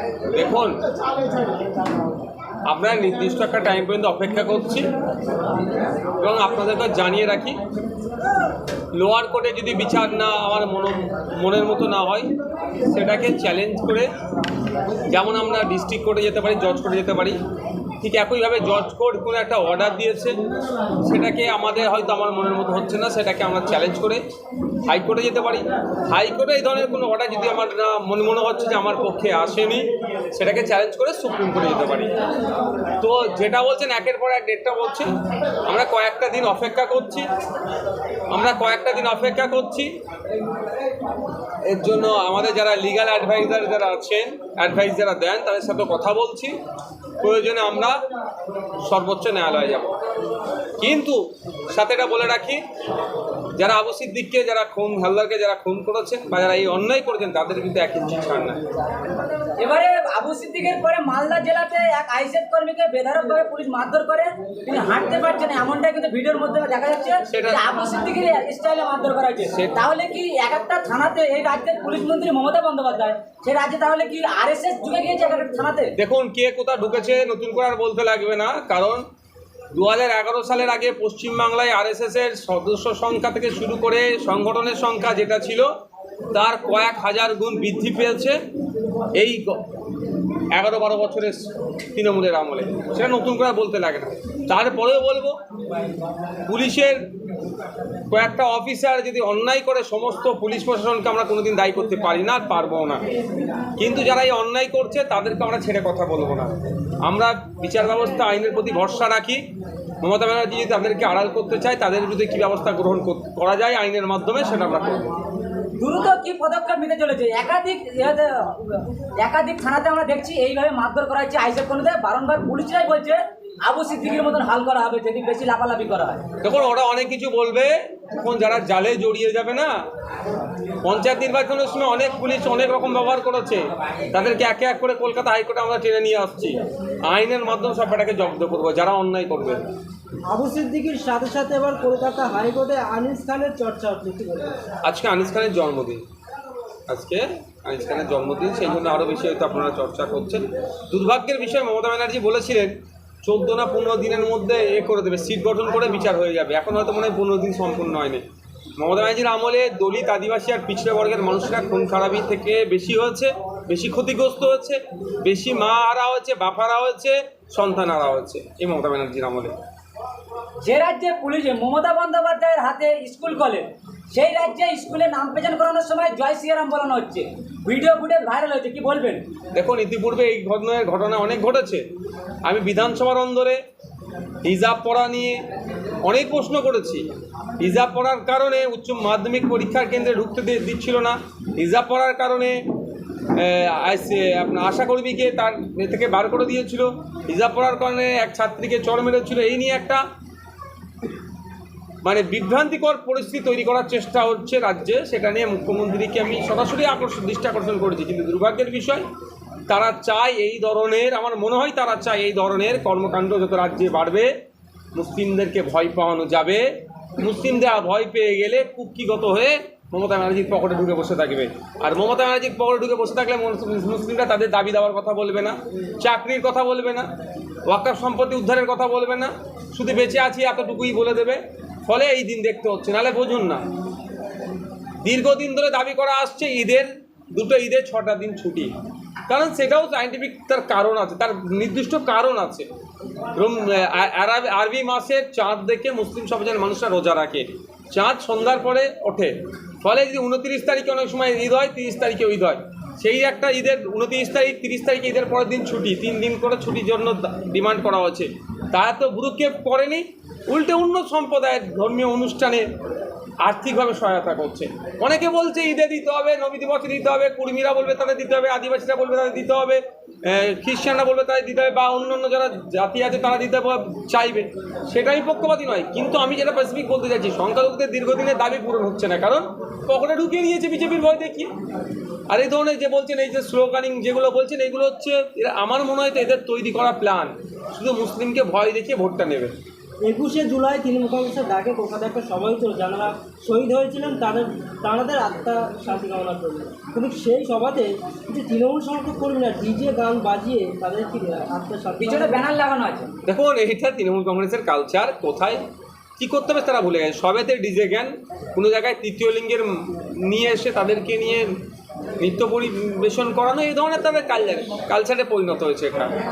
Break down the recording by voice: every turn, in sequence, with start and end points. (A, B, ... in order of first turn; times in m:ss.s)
0:00.3-0:00.8 A
0:02.7-0:04.8 A
0:06.2-0:07.6 A
0:08.9-0:12.3 A
0:12.8-0:14.1 A
0:15.1-0:17.4 A
0:18.0-0:20.3 A
0:21.0-0:24.2 A
0:24.8-0:32.1 A
0:33.0-0:35.1 A
0:35.7-0:37.2 A
0:38.3-0:39.9 A
0:41.7-0:46.5 A
0:47.2-0:48.0 A
0:48.9-0:49.9 A
0:50.8-0:52.6 A
0:53.6-0:58.6 A
0:59.6-1:15.9 B
1:07.3-1:07.7 A
1:09.5-1:09.8 A
1:16.0-1:19.0 A
1:19.7-1:25.7 A
1:26.3-1:28.4 A
1:29.2-1:29.6 A
1:30.5-1:35.3 A
1:36.5-1:37.0 A
1:38.1-1:43.0 A
1:43.8-1:49.4 A
1:50.0-1:55.1 A
1:55.8-2:06.2 B
2:06.4-2:09.7 A
2:10.8-2:19.6 A
2:20.3-2:24.5 C
2:24.8-2:26.0 A
2:26.9-2:38.2 A
2:38.8-2:49.5 A
2:50.6-2:59.2 B
2:59.5-3:01.8 A
3:02.4-3:03.6 A
3:04.4-3:05.4 A
3:06.0-3:07.0 A
3:07.6-3:12.6 A
3:13.4-3:20.0 A
3:22.0-3:29.0 A
3:29.7-3:34.3 A
3:34.9-3:36.6 A
3:37.2-3:47.1 A
3:47.7-3:53.6 A
3:55.0-3:58.7 A
3:59.3-4:02.7 A
4:03.4-4:22.6 A
4:23.4-4:41.5 A
4:42.3-4:49.5 A
4:50.0-5:02.5 C
5:02.0-5:03.1 B
5:03.2-5:05.6 A
5:06.2-5:11.5 A
5:12.2-5:16.1 A